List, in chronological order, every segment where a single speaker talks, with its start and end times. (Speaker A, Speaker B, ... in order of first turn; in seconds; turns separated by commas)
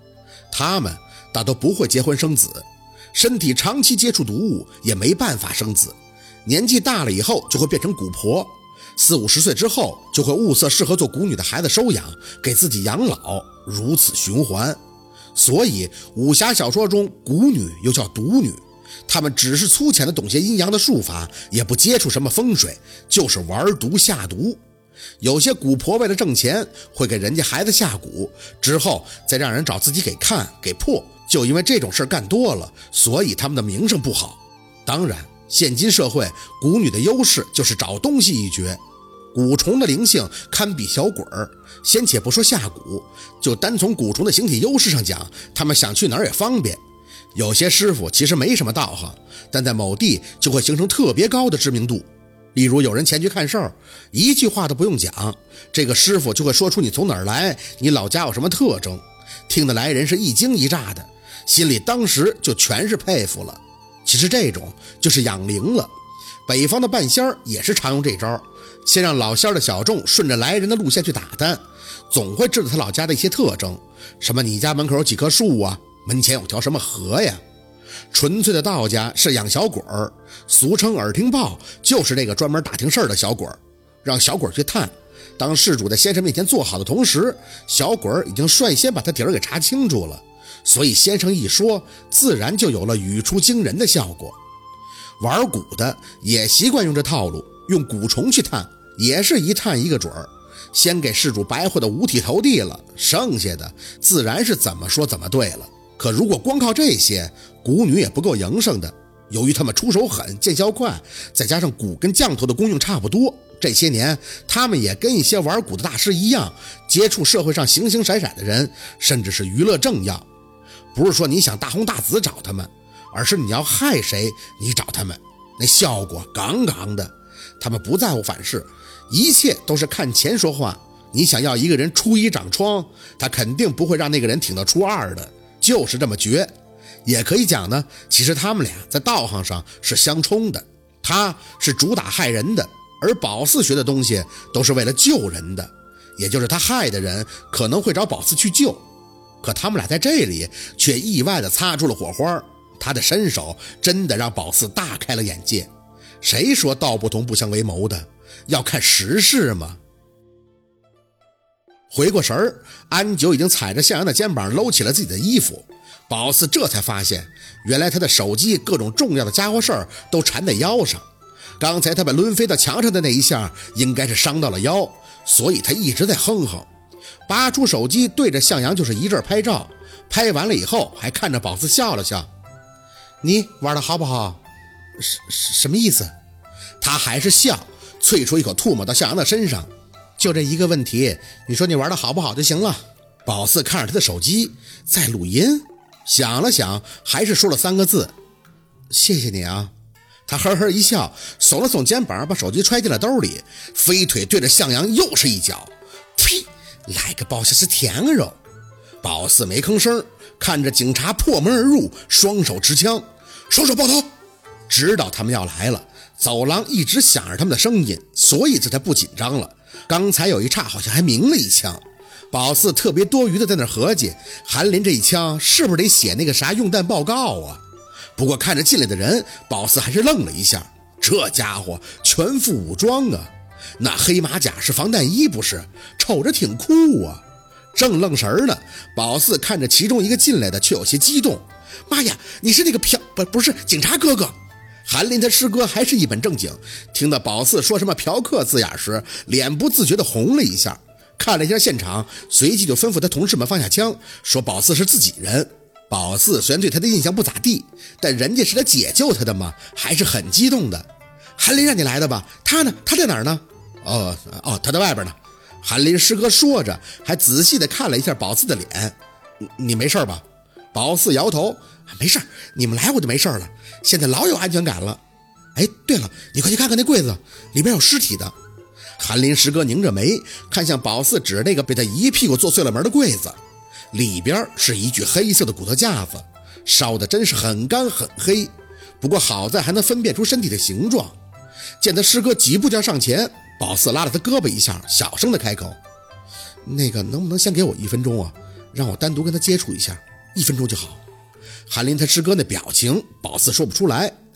Speaker A: 0.5-14.8, Speaker A: 15.3-24.6, Speaker A: 25.2-38.8, Speaker A: 39.3-46.8, Speaker A: 47.3-65.9, Speaker A: 66.5-77.4, Speaker A: 78.1-94.4, Speaker A: 95.2-120.2, Speaker A: 120.9-136.5, Speaker A: 137.0-148.8, Speaker A: 149.4-155.7, Speaker A: 156.2-159.8, Speaker A: 161.9-171.1, Speaker A: 171.6-176.7, Speaker A: 177.3-182.3, Speaker A: 183.2-184.4, Speaker A: 185.0-186.1, Speaker A: 186.8-198.1, Speaker A: 198.9-199.7, Speaker A: 200.3-208.4, Speaker A: 209.0-214.1, Speaker A: 214.7-227.6, Speaker A: 228.2-237.2, Speaker A: 237.7-275.0, Speaker A: 275.5-278.3, Speaker A: 279.0-283.4, Speaker A: 283.9-291.1, Speaker A: 291.8-295.8, Speaker A: 296.6-301.0, Speaker A: 301.7-304.1